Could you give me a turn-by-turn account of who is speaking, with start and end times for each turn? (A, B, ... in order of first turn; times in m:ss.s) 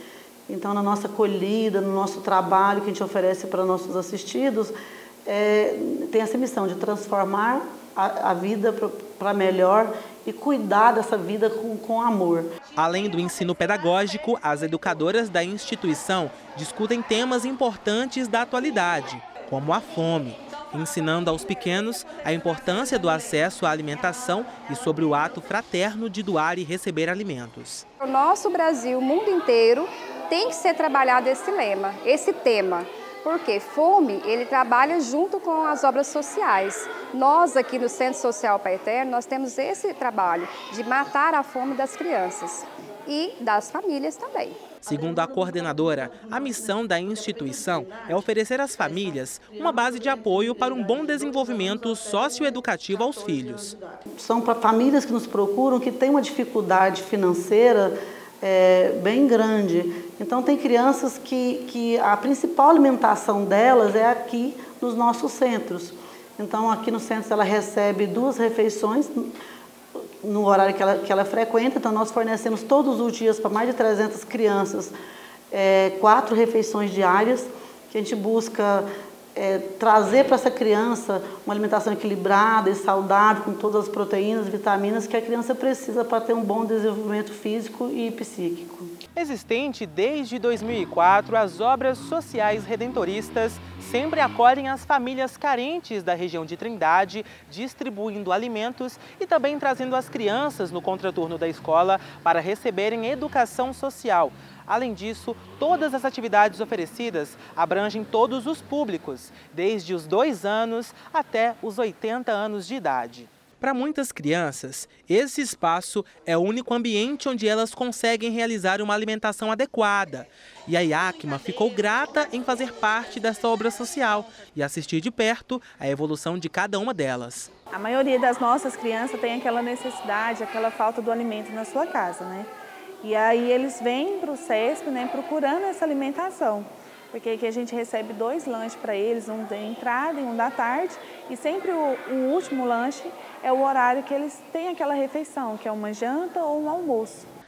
0:00.5-0:04.7 A
0:05.2-0:12.5 A
0:12.8-0:27.8 B
0:28.0-0:44.6 C
0:44.8-0:53.8 B
0:54.1-1:09.3 A
1:10.0-1:14.9 A
1:15.5-1:29.0 A
1:29.1-2:07.5 B
2:07.7-2:12.5 D
2:13.0-2:27.3 D